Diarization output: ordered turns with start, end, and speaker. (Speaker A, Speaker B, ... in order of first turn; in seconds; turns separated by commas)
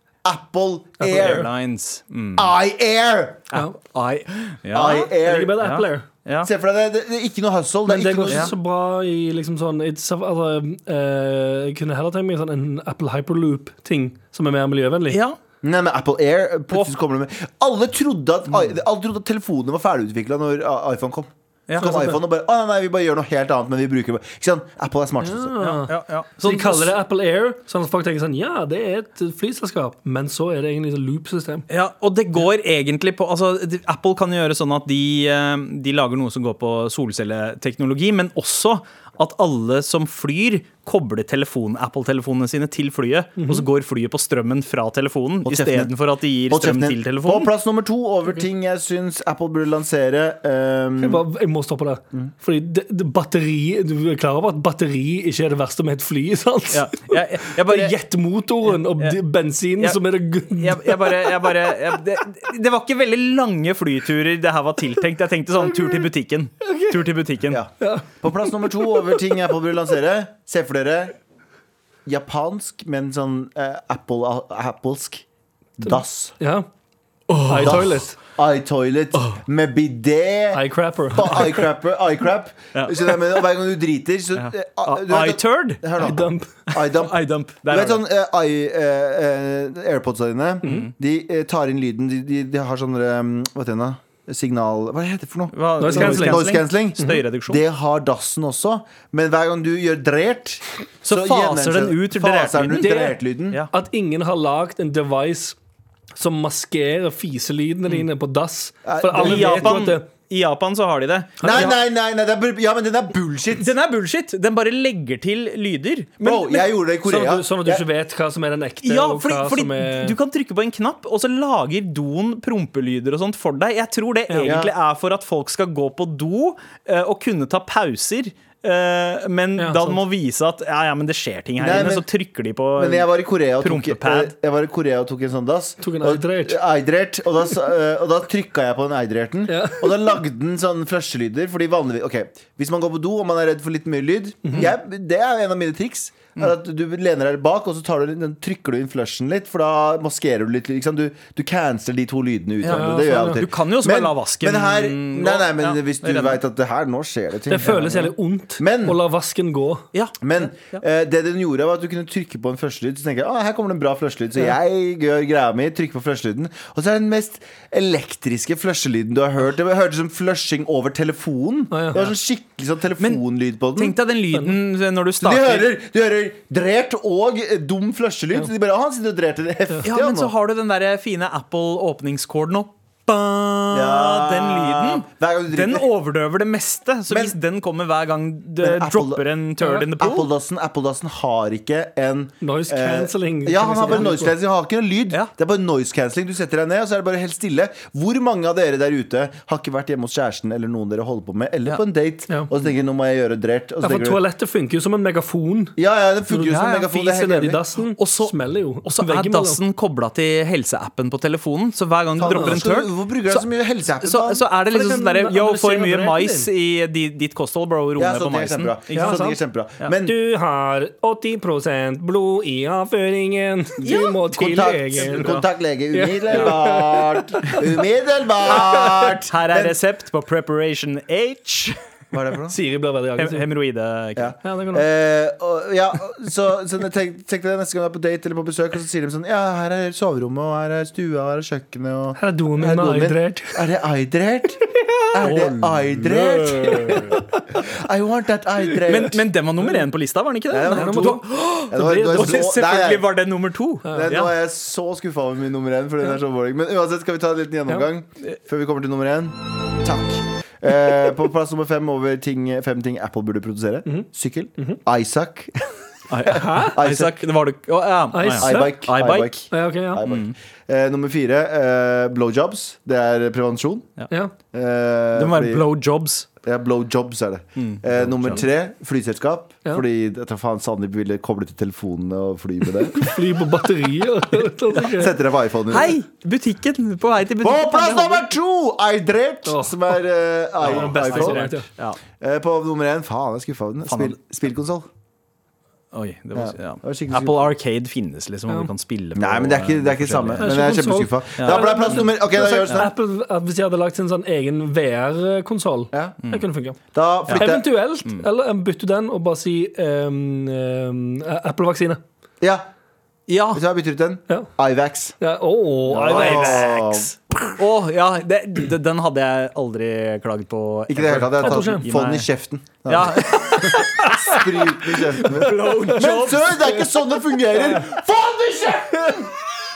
Speaker A: 0.2-1.5, Speaker B: 1.0-1.5, Speaker C: 1.1-2.5, Speaker A: 2.4-3.5, Speaker C: 3.5-6.5, Speaker A: 4.7-5.7, Speaker B: 5.1-6.1, Speaker A: 6.4-8.5, Speaker B: 7.8-15.2, Speaker C: 8.3-8.5, Speaker C: 15.1-15.4, Speaker A: 15.6-25.5, Speaker B: 21.8-22.1, Speaker B: 25.2-31.6, Speaker C: 25.6-26.9, Speaker C: 31.7-47.5, Speaker B: 43.4-43.6, Speaker A: 45.4-45.9, Speaker A: 46.5-51.2, Speaker B: 51.0-61.3, Speaker C: 56.7-58.0, Speaker C: 58.6-59.2, Speaker C: 60.5-67.6, Speaker B: 66.6-67.1, Speaker A: 67.5-71.1, Speaker B: 67.8-69.2, Speaker A: 72.0-75.2, Speaker A: 75.8-76.3, Speaker B: 75.8-76.7, Speaker C: 77.3-77.8, Speaker B: 77.4-78.2, Speaker A: 77.5-103.6, Speaker B: 80.5-81.6, Speaker C: 82.7-83.4, Speaker C: 84.3-85.8, Speaker B: 86.0-86.5, Speaker C: 86.7-88.0, Speaker B: 90.6-90.9, Speaker C: 95.5-97.6, Speaker B: 95.8-96.5, Speaker C: 101.0-102.9, Speaker B: 102.8-105.5, Speaker B: 106.2-110.1, Speaker A: 108.8-109.8, Speaker C: 109.1-111.8, Speaker A: 111.4-113.7, Speaker C: 113.6-116.7, Speaker A: 116.2-117.8, Speaker B: 117.0-120.2, Speaker C: 118.8-134.3, Speaker B: 124.3-124.5, Speaker A: 124.4-124.7, Speaker B: 129.6-130.0, Speaker A: 131.6-132.1, Speaker A: 132.8-159.0, Speaker B: 135.8-136.6, Speaker B: 139.5-140.1, Speaker B: 144.4-144.7, Speaker C: 152.6-156.4, Speaker B: 152.6-153.4, Speaker B: 157.5-159.8, Speaker C: 159.9-160.8, Speaker A: 160.2-173.9, Speaker B: 171.7-172.0, Speaker C: 173.8-175.7, Speaker A: 175.2-180.3, Speaker C: 179.8-190.3, Speaker A: 183.7-185.9, Speaker A: 187.1-187.3, Speaker A: 188.6-189.2, Speaker B: 189.6-189.8, Speaker A: 189.9-204.2, Speaker B: 192.4-194.3, Speaker B: 203.8-205.7, Speaker A: 205.8-207.6, Speaker B: 206.3-209.6, Speaker C: 206.5-206.8, Speaker C: 208.0-213.4, Speaker A: 212.2-214.4, Speaker B: 212.2-212.6, Speaker C: 214.0-219.2, Speaker B: 214.7-216.5, Speaker A: 218.0-220.2, Speaker B: 218.9-219.4, Speaker B: 220.0-225.3, Speaker C: 223.8-224.2, Speaker A: 223.9-229.8, Speaker C: 225.0-225.4, Speaker B: 225.9-227.7, Speaker B: 228.5-229.1, Speaker C: 229.2-231.8, Speaker A: 232.1-232.6, Speaker B: 232.5-233.4, Speaker C: 233.2-234.3, Speaker A: 234.2-249.3, Speaker B: 234.4-234.8, Speaker B: 242.2-243.6, Speaker C: 245.2-247.2, Speaker B: 246.9-247.4, Speaker C: 248.8-254.3, Speaker A: 250.5-253.1, Speaker B: 250.7-252.5, Speaker B: 253.8-254.1, Speaker A: 253.9-265.6, Speaker B: 263.9-264.8, Speaker C: 266.1-269.4, Speaker A: 266.2-267.2, Speaker B: 266.3-266.8, Speaker B: 268.1-268.9, Speaker A: 268.4-273.9, Speaker B: 269.5-270.0, Speaker C: 270.0-270.3, Speaker A: 274.5-275.6, Speaker C: 275.1-276.3, Speaker A: 276.4-283.1, Speaker C: 277.6-278.4, Speaker B: 282.9-285.1, Speaker A: 284.8-285.9, Speaker C: 285.7-288.3, Speaker A: 287.4-291.5, Speaker B: 289.4-289.9, Speaker B: 290.6-291.7, Speaker C: 290.6-292.0, Speaker A: 292.2-294.9, Speaker C: 293.9-294.1, Speaker C: 295.9-300.7, Speaker A: 296.3-297.5, Speaker A: 299.1-302.9, Speaker B: 300.4-306.8, Speaker C: 301.4-302.1, Speaker C: 302.6-302.9, Speaker A: 306.9-307.7, Speaker B: 307.3-312.0, Speaker C: 313.3-313.6, Speaker A: 313.5-315.1, Speaker B: 315.2-316.8, Speaker A: 315.9-317.1, Speaker C: 315.9-322.3, Speaker A: 320.9-329.3, Speaker B: 321.4-321.9, Speaker C: 322.9-324.2, Speaker B: 323.5-326.0, Speaker C: 325.2-326.7